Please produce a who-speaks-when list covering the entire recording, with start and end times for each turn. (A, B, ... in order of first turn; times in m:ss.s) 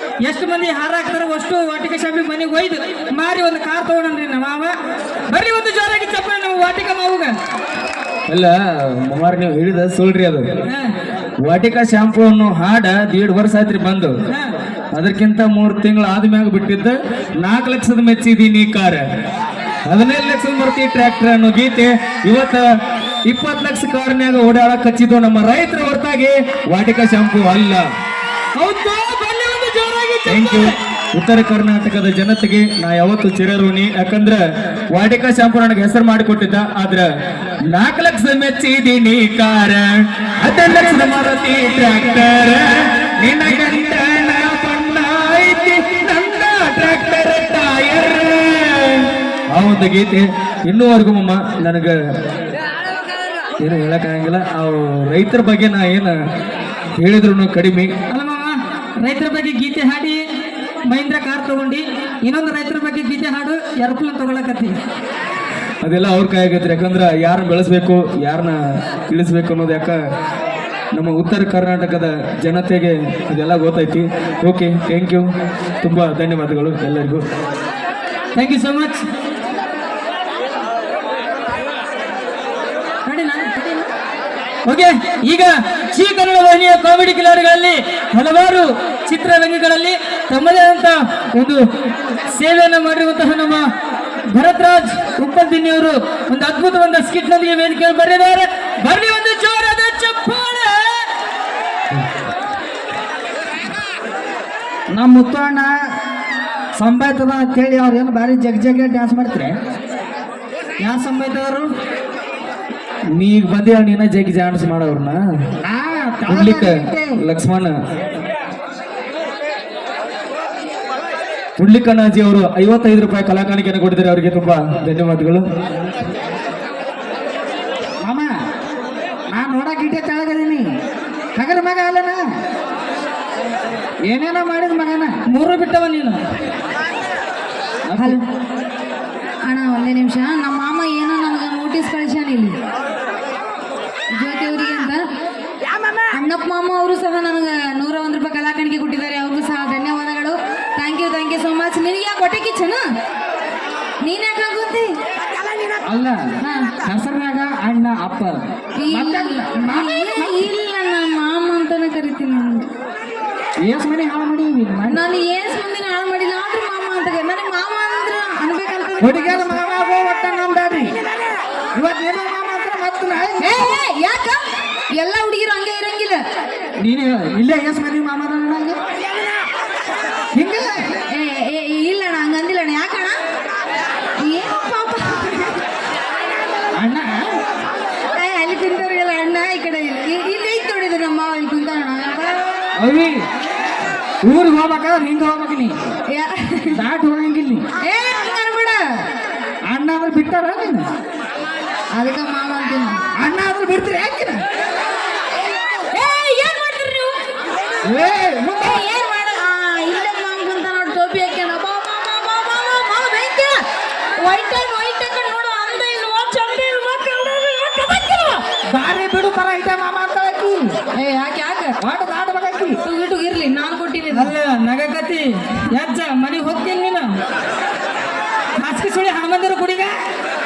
0:00.2-0:04.7 A
0:05.3-0:07.3 A
0:08.3-0:10.4 B
0:10.6-0:10.9 A
0:11.4-0:14.1 B
0:14.9-0:19.0 B
0:19.9-0:22.6 B
0:23.2-0:27.8 B
0:28.5-0:30.8 A
0:30.2-0:37.1 B
0:37.6-0:52.0 B
0:53.6-0:56.1 B
0:57.0-0:57.9 B
0:58.1-1:00.2 A
1:00.9-1:04.8 A
1:05.8-1:10.0 B
1:10.9-1:15.3 B
1:15.8-1:17.2 B
1:18.3-1:19.1 A
1:23.1-1:23.5 A
1:24.6-1:31.6 A
1:32.3-1:33.6 A
1:34.3-1:40.8 A
1:44.9-1:45.7 C
1:46.8-1:49.6 C
1:50.8-1:51.7 A
1:53.1-1:55.2 B
1:55.6-1:57.2 C
1:56.3-1:57.8 B
2:01.6-2:05.4 B
2:08.0-2:08.3 C
2:09.3-2:10.7 C
2:11.4-2:12.2 C
2:14.0-2:15.1 C
2:15.3-2:16.2 A
2:17.9-2:18.2 C
2:19.5-2:22.6 D
2:24.1-2:25.0 D
2:26.1-2:32.8 D
2:34.0-2:34.9 D
2:35.8-2:40.4 C
2:36.4-2:36.7 D
2:38.8-2:42.7 D
2:43.6-2:45.0 C
2:44.8-2:49.6 D
2:49.0-2:51.0 C
2:51.8-2:53.7 C
2:53.4-2:54.4 D
2:55.0-2:56.2 D
2:56.8-2:58.8 C
3:00.3-3:00.9 C
3:01.1-3:03.2 D
3:04.2-3:05.6 D
3:06.7-3:07.3 C
3:08.1-3:12.8 D
3:12.8-3:13.2 C
3:14.2-3:15.8 C
3:16.1-3:16.8 D
3:16.7-3:17.7 C
3:17.8-3:18.8 D
3:19.7-3:20.9 C
3:21.9-3:23.0 D
3:23.1-3:24.4 C
3:25.9-3:27.2 D
3:27.8-3:28.7 C
3:28.5-3:33.6 D
3:34.2-3:38.4 D
3:38.7-3:40.8 C
3:40.9-3:41.8 D
3:41.8-3:42.8 C
3:42.8-3:44.3 D
3:44.1-3:47.0 A
3:48.6-3:50.0 A